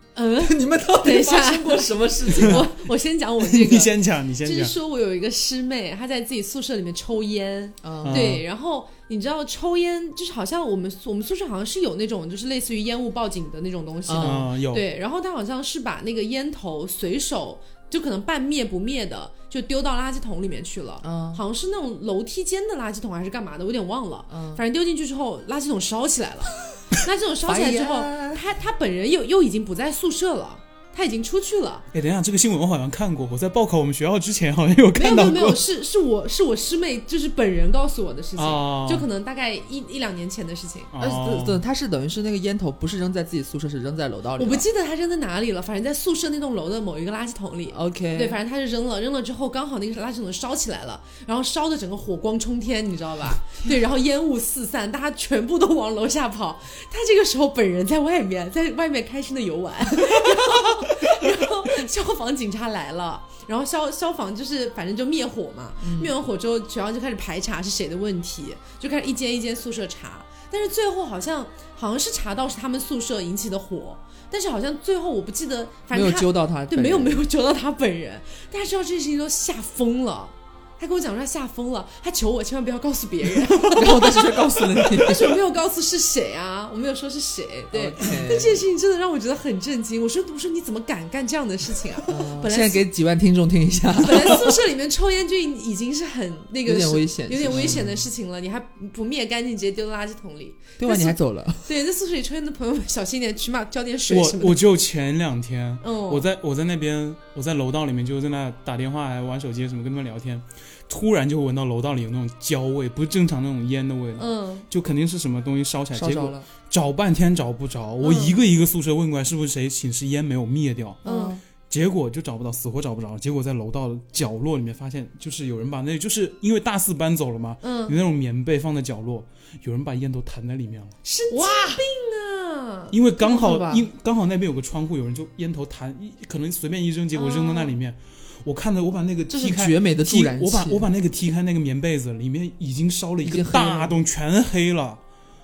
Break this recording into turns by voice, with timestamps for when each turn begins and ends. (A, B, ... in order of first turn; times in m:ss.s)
0:00.1-0:31.8 A
0:00.4-0:02.7 B
0:02.4-0:02.6 C
0:03.4-0:04.7 C
0:07.8-0:08.4 B
0:08.0-0:08.4 C
0:14.1-0:14.5 B
0:14.2-0:14.8 C
0:21.0-0:21.4 B
0:24.3-0:24.6 B
0:27.4-0:28.4 B
0:31.9-0:35.6 C
0:34.9-0:40.9 A
0:38.4-0:39.1 C
0:40.9-0:41.6 C
0:41.0-0:44.6 B
0:44.4-1:32.8 A
0:47.7-0:48.4 B
1:05.8-1:06.1 B
1:15.9-1:17.2 B
1:23.7-1:25.4 B
1:27.7-1:28.6 B
1:32.1-1:34.5 B
1:33.9-1:44.6 A
1:36.6-1:37.9 B
1:37.5-1:37.9 C
1:40.8-1:41.6 B
1:44.1-2:01.0 C
1:45.8-1:46.3 A
1:54.2-1:54.6 A
1:55.9-1:56.5 B
1:58.0-1:58.4 A
2:01.0-2:01.4 A
2:01.0-2:01.4 B
2:01.7-2:10.9 C
2:07.6-2:08.0 A
2:11.1-2:13.0 A
2:11.2-2:11.8 B
2:12.9-2:25.0 C
2:13.2-2:13.9 B
2:17.1-2:17.7 A
2:19.3-2:20.9 B
2:23.2-2:24.0 B